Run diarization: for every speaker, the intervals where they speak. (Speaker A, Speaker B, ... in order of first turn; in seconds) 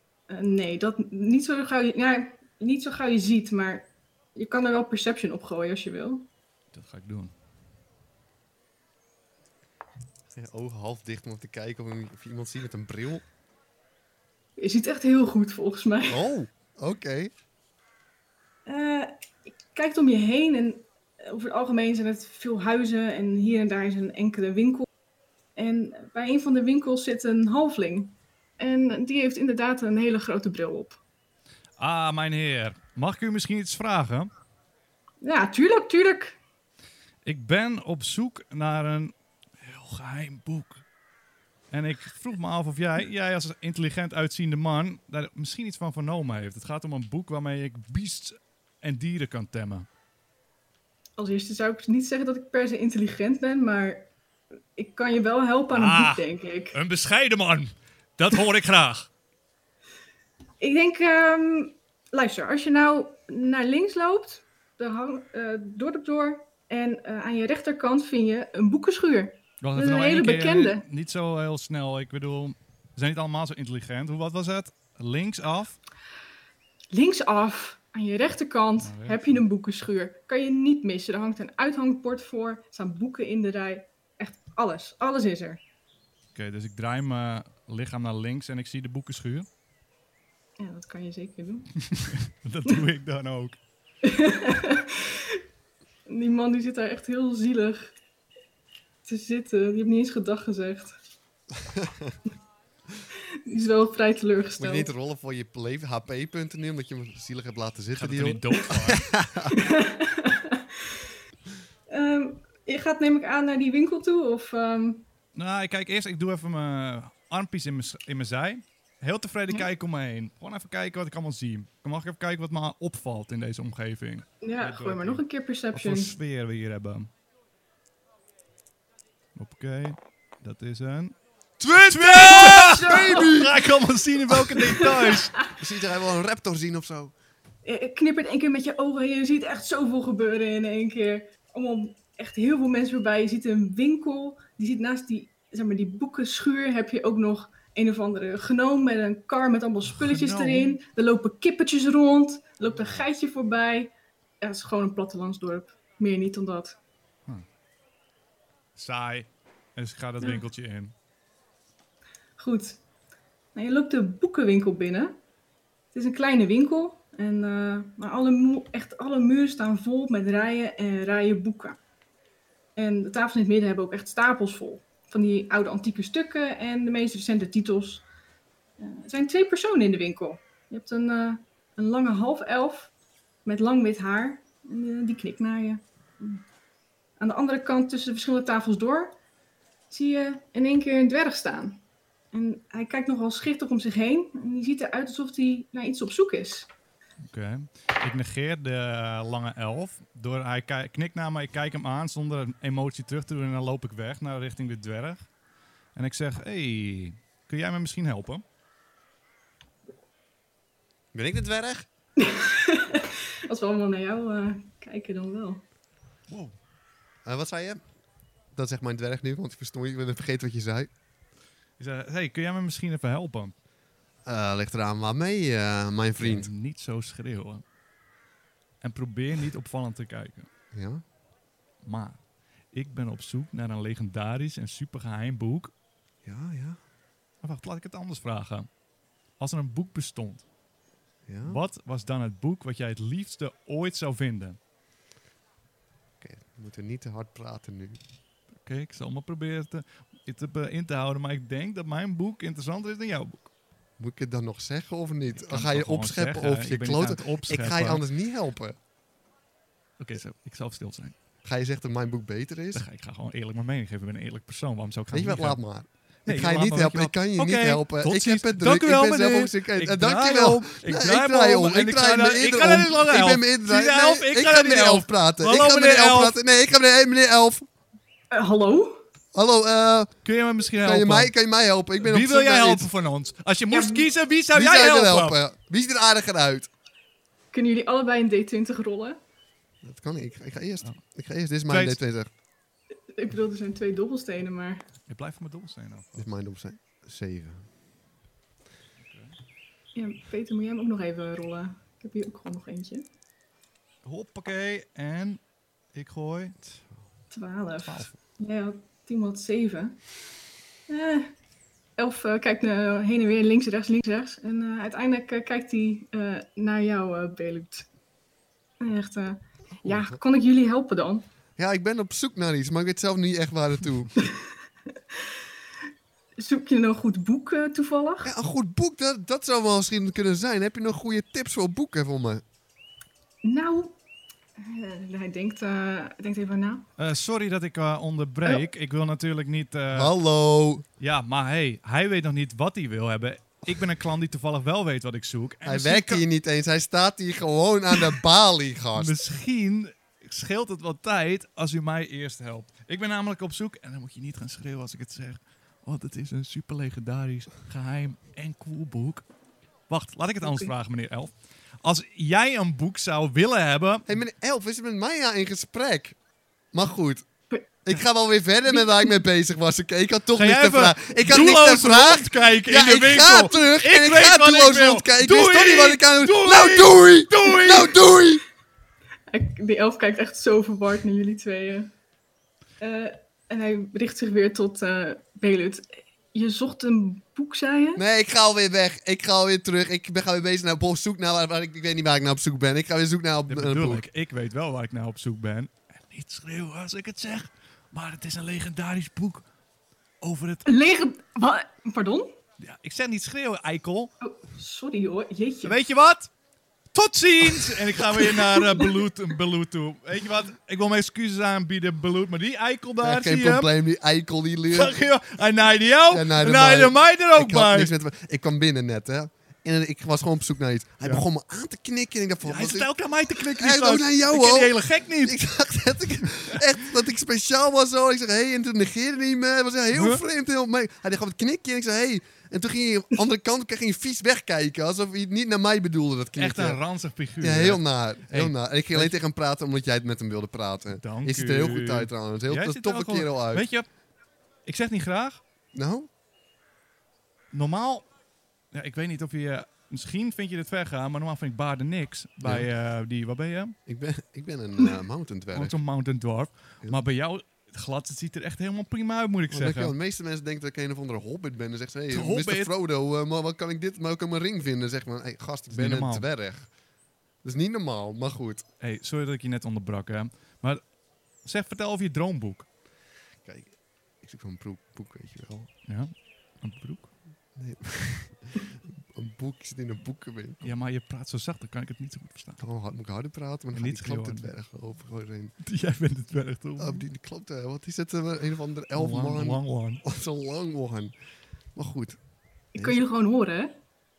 Speaker A: 0.3-6.3, 14.6-16.2, 18.7-19.1, 19.7-24.9, 25.6-31.0, 35.2-36.4, 51.2-54.1, 54.8-56.8, 60.6-70.8, 76.9-85.6, 90.6-91.8, 94.0-95.4, 96.1-97.9, 99.0-101.0, 103.5-104.9, 109.5-111.0, 111.9-115.0, 124.4-126.1, 132.2-133.3, 134.5-135.4, 137.6-156.8, 162.4-162.8, 163.6-165.2, 165.9-171.8, 172.8-178.1, 178.8-182.9, 183.5-186.4, 187.2-189.2, 189.9-196.7, 212.2-215.6, 278.3-279.0, 283.7-284.1, 287.5-289.2, 293.1-294.9, 299.9-303.1, 307.3-310.0, 310.9-311.3, 312.0-317.9, 318.8-321.3, 324.2-325.4, 326.4-328.3, 333.4-333.9, 334.6-336.9, 360.4-360.7, 368.7-369.1, 379.3-381.9, 382.8-388.0, 400.6-402.4, 404.2-405.8, 408.2-409.0, 492.7-493.8
Speaker B: 6.7-7.3, 31.8-34.3, 37.2-40.8, 41.7-49.9, 55.7-59.1, 69.6-75.8, 78.8-79.4, 86.3-89.5, 91.9-93.6, 108.0-109.1, 115.3-127.1, 129.4-131.2, 131.9-135.4, 149.9-150.8, 158.8-160.9, 197.2-205.2, 206.0-208.4, 216.3-216.5, 221.8-223.5, 226.2-227.6, 228.8-230.5, 231.8-232.2, 232.7-235.7, 237.4-238.7, 239.4-240.4, 241.4-244.6, 248.6-253.5, 255.4-258.0, 260.0-261.1, 262.7-265.6, 266.3-276.4, 280.2-281.3, 282.0-285.4, 291.7-292.0, 295.1-296.2, 299.0-299.4, 304.0-305.4, 305.9-306.6, 307.8-308.1, 337.0-340.1, 341.0-346.2, 348.9-359.2, 359.9-364.1, 370.4-378.0, 393.5-399.4, 400.2-400.7, 402.6-404.1, 405.6-406.3, 406.9-413.7, 414.7-417.9, 422.4-425.4, 429.9-430.2, 436.4-439.1, 441.0-443.9, 444.7-445.4, 447.5-448.1, 448.7-453.8, 455.5-459.9, 462.1-462.7, 465.7-466.3, 468.8-470.8, 471.4-472.7, 475.9-477.1, 480.6-482.6, 483.7-484.5, 485.6-487.0, 488.9-490.0
Speaker C: 10.3-13.2, 16.1-17.3, 101.6-102.2, 104.6-109.6, 131.6-133.6, 135.6-137.1, 152.7-153.1, 211.1-211.9, 217.2-217.8, 218.5-220.9, 224.3-226.5, 230.7-231.0, 236.2-236.8, 241.3-241.6, 246.2-248.0, 254.0-258.8, 261.4-262.9, 265.1-277.7, 279.3-280.1, 280.8-282.9, 284.5-286.7, 289.8-292.3, 296.1-297.7, 319.8-320.2, 321.6-324.1, 328.2-332.4, 339.9-340.9, 345.6-349.1, 364.1-366.2, 366.7-367.2, 367.9-378.4, 388.0-394.0, 413.0-415.0, 416.1-422.9, 423.5-436.8, 437.4-443.7, 445.7-446.1, 452.4-452.7, 453.9-455.8, 459.5-466.7, 467.4-468.6, 473.4-475.7, 477.6-480.8, 482.6-485.6, 486.8-491.1, 491.8-492.2